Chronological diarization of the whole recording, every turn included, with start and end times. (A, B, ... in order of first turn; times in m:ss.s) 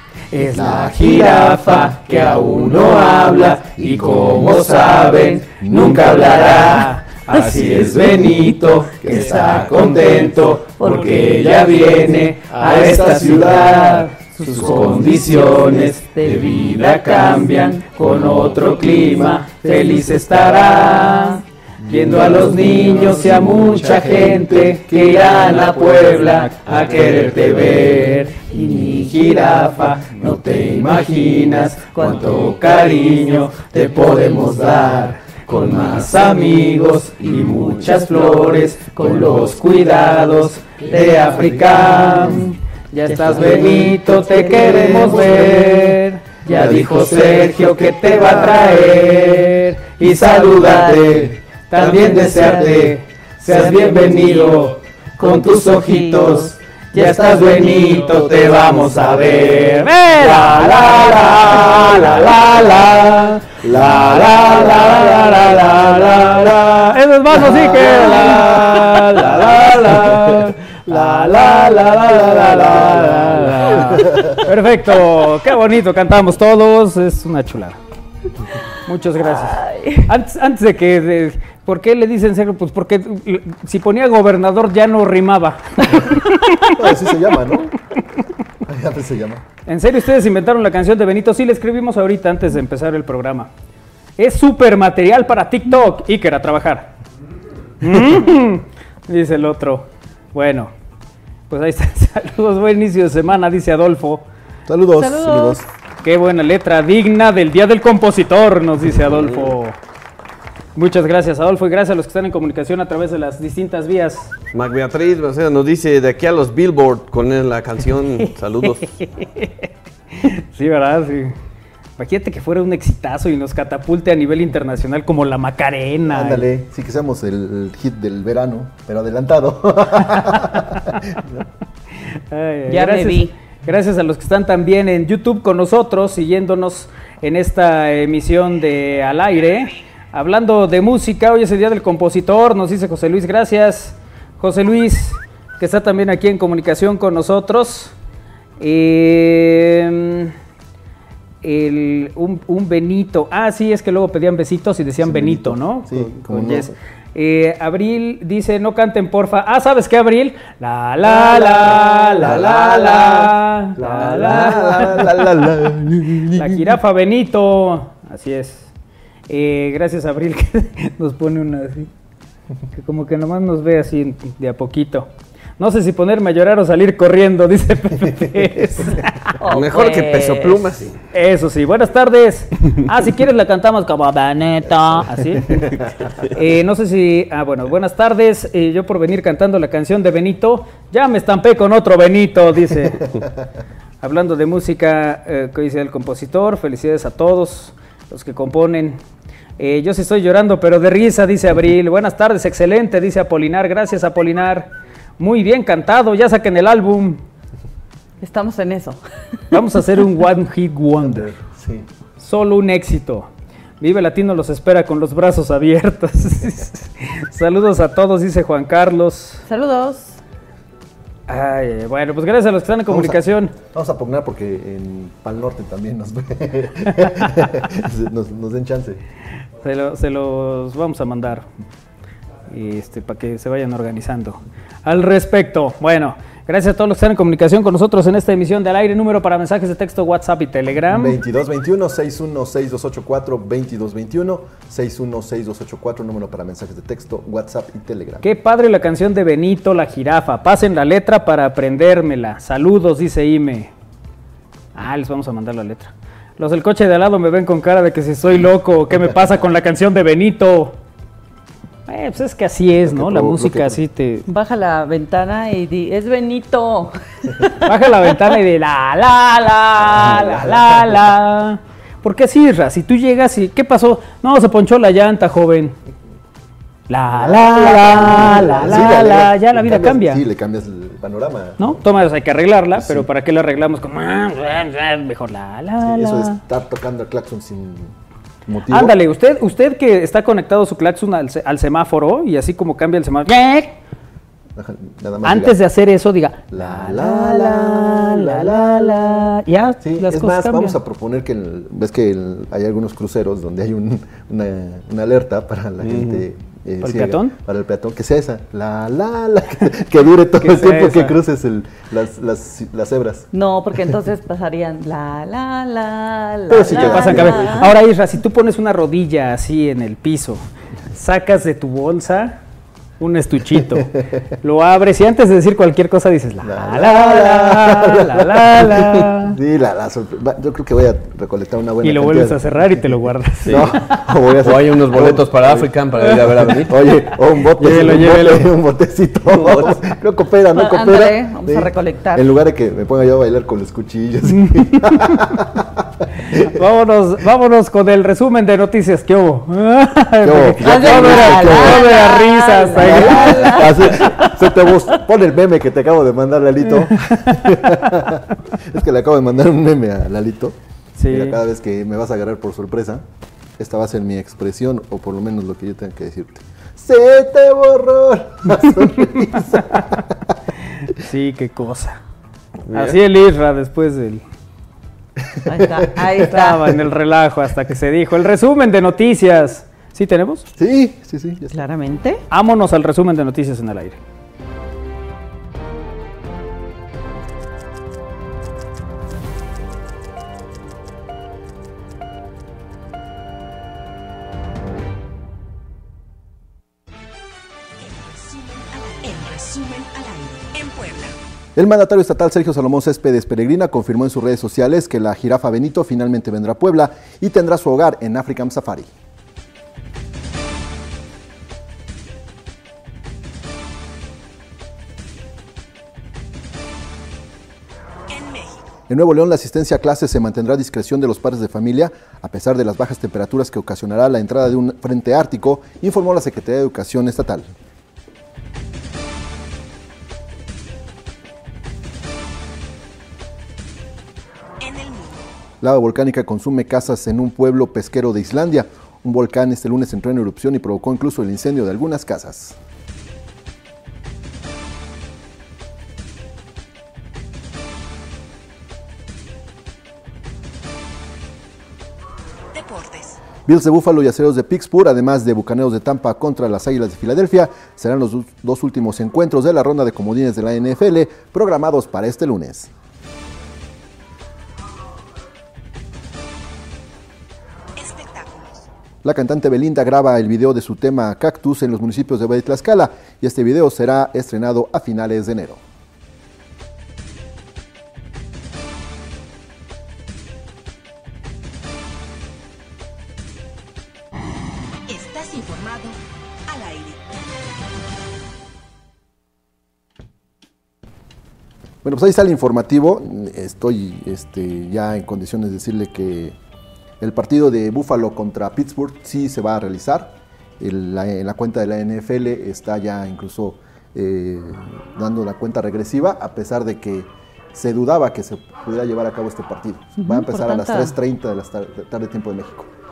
0:00.3-1:17.8 A
0:00.4-0:01.3 B
0:03.8-0:04.6 B
0:05.6-0:11.8 B
0:10.8-0:12.0 C
0:12.3-0:15.8 B
0:14.5-0:17.8 C
0:21.0-0:21.3 C
0:21.8-0:25.7 B
0:25.0-0:26.5 C
0:27.3-0:27.7 B
0:31.8-0:33.4 C
0:34.0-0:34.8 B
0:35.6-0:36.1 C
0:37.3-0:39.5 C
0:40.8-0:42.5 C
0:43.1-0:45.9 C
0:44.5-0:45.5 B
0:48.1-0:48.6 C
0:50.0-0:52.9 C
0:50.9-0:51.1 B
0:51.8-0:52.8 B
0:53.5-0:54.6 C
0:55.2-0:56.5 C
0:56.9-0:59.8 B
1:00.2-1:01.2 C
1:00.9-1:02.5 B
1:03.6-1:14.5 B
1:18.8-1:26.4 A
1:19.3-1:20.1 C
1:26.7-1:27.7 B
1:28.6-1:29.4 B
1:29.7-1:33.5 A
1:34.2-1:36.9 A
1:37.8-1:40.7 A
1:41.5-1:44.2 A
1:44.7-1:45.7 B
1:44.9-1:45.6 C
1:46.0-1:49.7 A
1:50.8-1:54.3 A
1:54.5-1:58.8 D
1:58.6-2:01.4 A
2:02.0-2:06.4 A
2:06.1-2:11.4 B
2:10.2-2:10.5 A
2:12.3-2:27.9 A
2:12.7-2:13.3 C
2:28.6-2:30.3 A
2:31.4-2:45.4 A
2:35.0-2:36.7 B
2:41.0-2:46.7 B
2:46.3-2:48.7 A
2:49.3-2:51.9 A
2:52.7-2:59.1 A
2:59.3-3:00.8 C
2:59.5-3:01.0 D
3:01.1-3:05.7 A
3:05.4-3:05.8 B
3:06.3-3:13.1 A
3:14.0-3:19.0 A
3:19.6-3:27.2 A
3:28.2-3:29.0 C
3:29.5-3:31.3 A
3:31.0-3:31.9 B
3:32.2-3:33.3 A
3:33.8-3:39.4 A
3:39.4-3:40.2 C
3:41.3-3:43.5 A
3:42.9-3:49.0 B
3:49.6-3:51.5 A
3:52.5-4:01.2 A
4:00.9-4:08.2 B
4:08.2-4:13.7 A
4:14.7-4:20.8 A
4:21.9-4:24.2 A
4:22.8-4:23.8 B
4:24.2-4:27.7 C
4:27.6-4:35.8 A
4:29.9-4:30.8 B
4:36.9-4:40.2 A
4:37.1-4:41.8 B
4:41.6-4:46.4 A
4:42.7-4:43.1 B
4:45.8-4:47.9 B
4:48.4-4:49.0 B
4:48.7-4:53.8 A
4:54.6-4:55.6 B
4:55.2-5:00.8 A
4:56.5-4:59.3 B
4:59.8-5:13.3 B
5:05.8-5:06.2 D
5:06.8-5:07.3 A
5:10.4-5:11.1 A
5:13.3-5:17.7 C
5:16.5-5:17.7 B
5:16.7-5:22.4 A
5:23.0-5:29.4 A
5:23.7-5:24.2 B
5:26.4-5:32.4 B
5:31.8-5:34.0 A
5:33.4-5:33.7 D
5:33.4-5:46.5 B
5:34.4-5:36.8 D
5:37.6-5:38.5 A
5:39.3-5:39.7 D
5:40.5-5:42.3 C
5:44.3-5:45.2 A
5:46.2-5:53.6 A
5:50.2-5:52.1 B
5:50.6-5:54.9 C
5:52.8-6:00.6 B
5:56.9-5:57.4 A
6:01.0-6:01.4 A
6:01.1-6:03.0 B
6:03.6-6:10.3 B
6:10.8-6:12.0 A
6:12.7-6:13.0 D
6:12.7-6:14.2 A
6:15.3-6:16.1 B
6:15.4-6:16.7 C
6:16.2-6:20.5 A
6:20.6-6:21.5 B
6:21.5-6:22.2 C
6:22.3-6:24.0 A
6:37.8-6:41.2 E
6:41.6-6:48.9 B
6:58.1-6:58.7 E
6:58.9-7:07.5 B
7:14.6-7:15.2 E
7:15.6-7:22.6 B
7:32.5-7:33.2 E
7:33.4-7:42.7 B
7:47.8-7:48.6 E
7:49.0-7:55.6 B
8:04.9-8:07.2 E
8:11.8-8:16.4 B
8:17.0-8:32.7 B
8:30.0-8:30.9 C